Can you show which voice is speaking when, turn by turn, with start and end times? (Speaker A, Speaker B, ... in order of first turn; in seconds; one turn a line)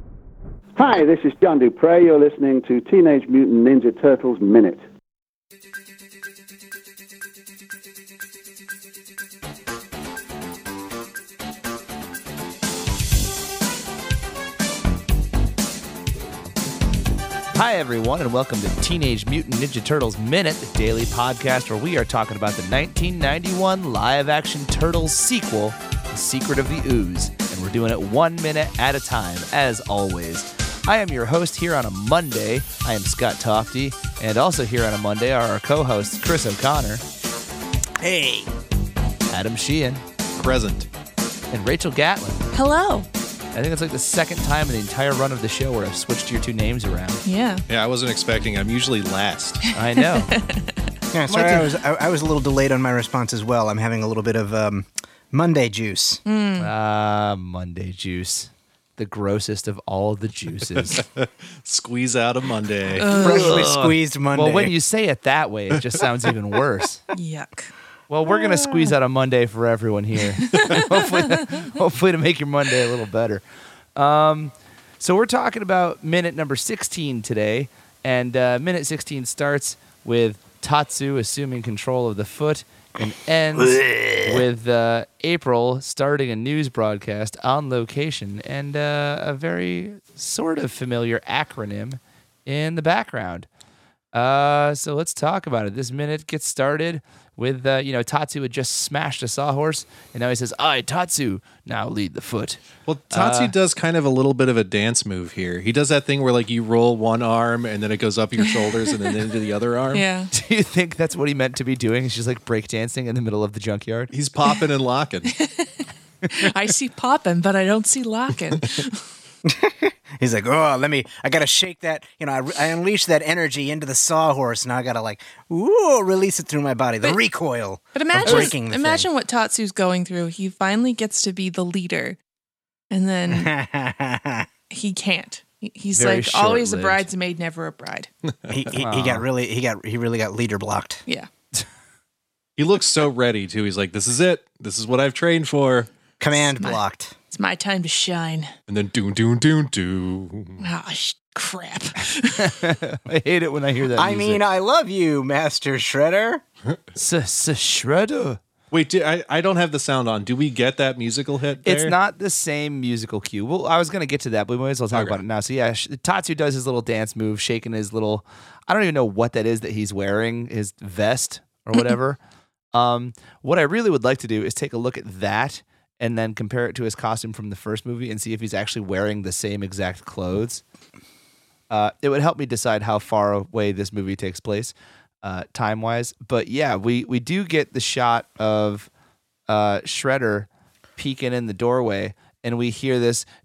Speaker A: 0.8-4.8
Speaker B: 17.5-37.0
Speaker C: 38.0-38.5
Speaker B: 39.3-40.0
Speaker D: 40.4-40.9
Speaker B: 41.5-42.5
Speaker E: 42.5-43.1
Speaker B: 43.5-47.2
Speaker E: 47.2-47.6
Speaker D: 47.7-49.6
Speaker E: 49.7-50.7
Speaker B: 49.7-50.3
Speaker C: 51.1-56.2
Speaker B: 51.3-51.7
Speaker E: 56.2-56.7
Speaker B: 56.6-61.0
Speaker D: 60.9-63.1
Speaker E: 63.0-63.6
Speaker C: 63.1-64.7
Speaker B: 63.1-67.0
Speaker E: 67.1-67.7
Speaker B: 68.1-73.4
Speaker E: 70.5-71.6
Speaker B: 73.9-93.5
Speaker C: 83.6-84.4
Speaker B: 94.1-103.5
Speaker D: 102.9-110.0
Speaker E: 108.6-109.2
Speaker E: 109.9-110.3
Speaker B: 110.3-114.1
Speaker D: 114.1-115.4
Speaker E: 115.4-119.0
Speaker C: 119.4-129.1
Speaker E: 127.9-132.2
Speaker E: 132.9-133.5
Speaker C: 133.3-134.5
Speaker E: 134.7-138.1
Speaker B: 135.9-137.1
Speaker C: 138.5-141.0
Speaker B: 138.7-139.2
Speaker D: 142.6-145.9
Speaker C: 146.2-147.2
Speaker E: 146.3-146.8
Speaker E: 147.3-148.5
Speaker D: 148.7-150.6
Speaker E: 150.6-152.5
Speaker B: 152.3-154.4
Speaker C: 153.9-156.4
Speaker B: 157.0-158.4
Speaker D: 158.7-162.0
Speaker B: 161.7-172.2
Speaker D: 164.9-165.2
Speaker B: 172.7-180.6
Speaker B: 181.7-188.9
Speaker B: 189.5-193.2